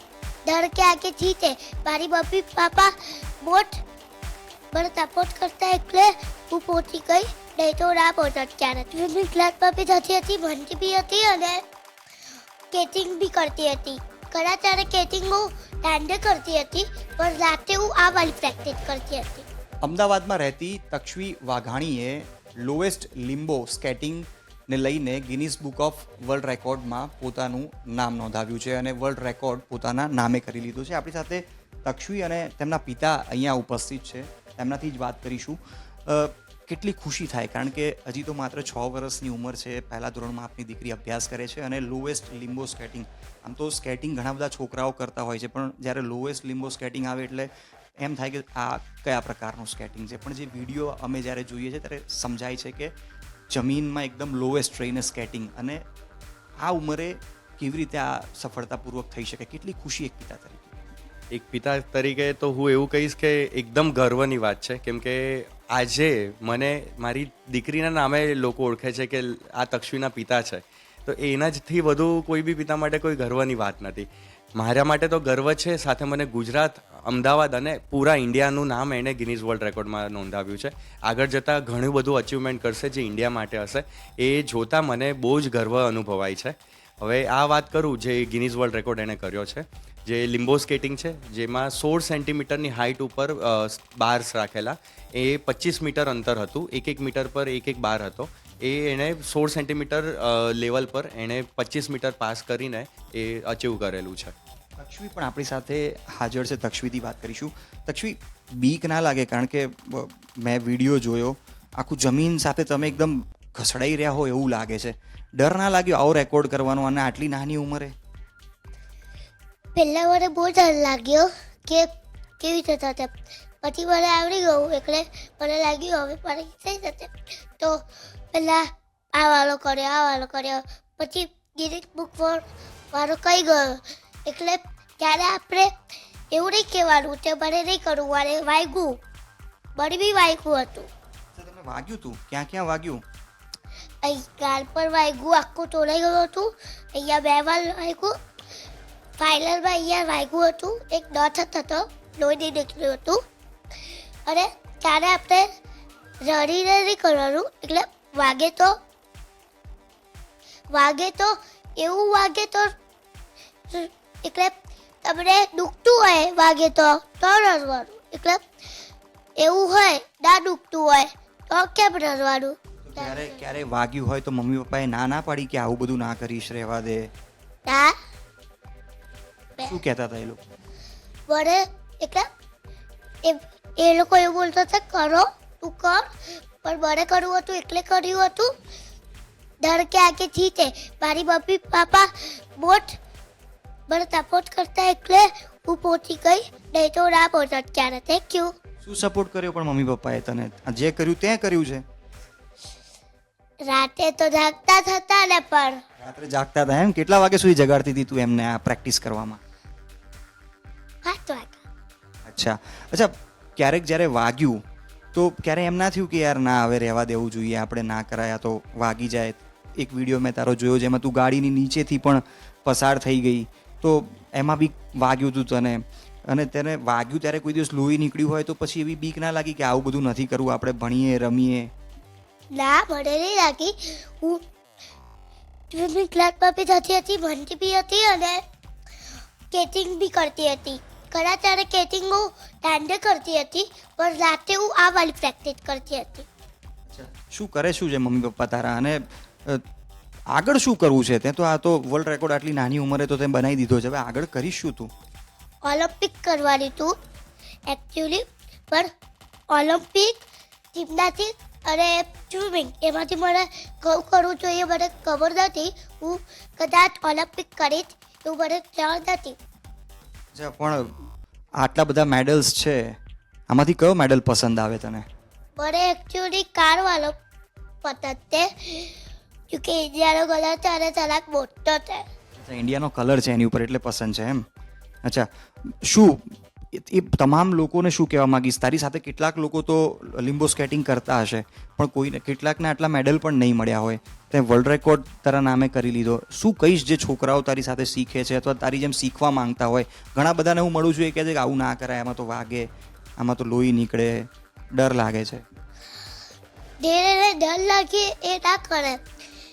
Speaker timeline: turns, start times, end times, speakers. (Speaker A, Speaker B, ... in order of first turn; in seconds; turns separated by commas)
Speaker A: 0.5-3.8, Speaker A: 4.7-11.6, Speaker A: 12.7-19.5, Speaker B: 19.8-52.9, Speaker B: 53.5-55.8, Speaker B: 56.6-60.8, Speaker C: 61.3-104.3, Speaker B: 104.8-117.9, Speaker A: 119.7-121.9, Speaker A: 122.4-135.7, Speaker A: 136.3-139.0, Speaker A: 139.7-140.9, Speaker B: 141.3-143.0, Speaker A: 144.0-148.1, Speaker A: 149.2-153.2, Speaker A: 154.2-155.5, Speaker A: 156.2-158.8, Speaker A: 160.7-162.7, Speaker A: 163.7-168.4, Speaker A: 169.4-173.3, Speaker B: 172.8-177.1, Speaker A: 177.7-177.9, Speaker B: 179.6-180.4, Speaker A: 181.3-182.3, Speaker A: 183.2-188.5, Speaker A: 189.6-193.0, Speaker A: 193.9-198.5, Speaker B: 198.8-201.8, Speaker A: 203.7-205.8, Speaker B: 206.0-209.4, Speaker A: 211.0-211.6, Speaker B: 212.2-214.6, Speaker B: 215.1-231.7, Speaker A: 232.5-234.4, Speaker A: 235.7-238.4, Speaker A: 239.5-246.3, Speaker B: 246.9-249.6, Speaker B: 250.3-254.9, Speaker A: 255.6-256.9, Speaker A: 257.7-258.9, Speaker A: 259.5-269.4, Speaker B: 270.3-270.9, Speaker B: 271.6-273.0, Speaker B: 273.5-275.0, Speaker A: 275.6-277.1, Speaker A: 277.8-279.0, Speaker A: 279.5-282.0, Speaker B: 282.4-284.4, Speaker B: 285.0-305.4, Speaker A: 306.8-309.0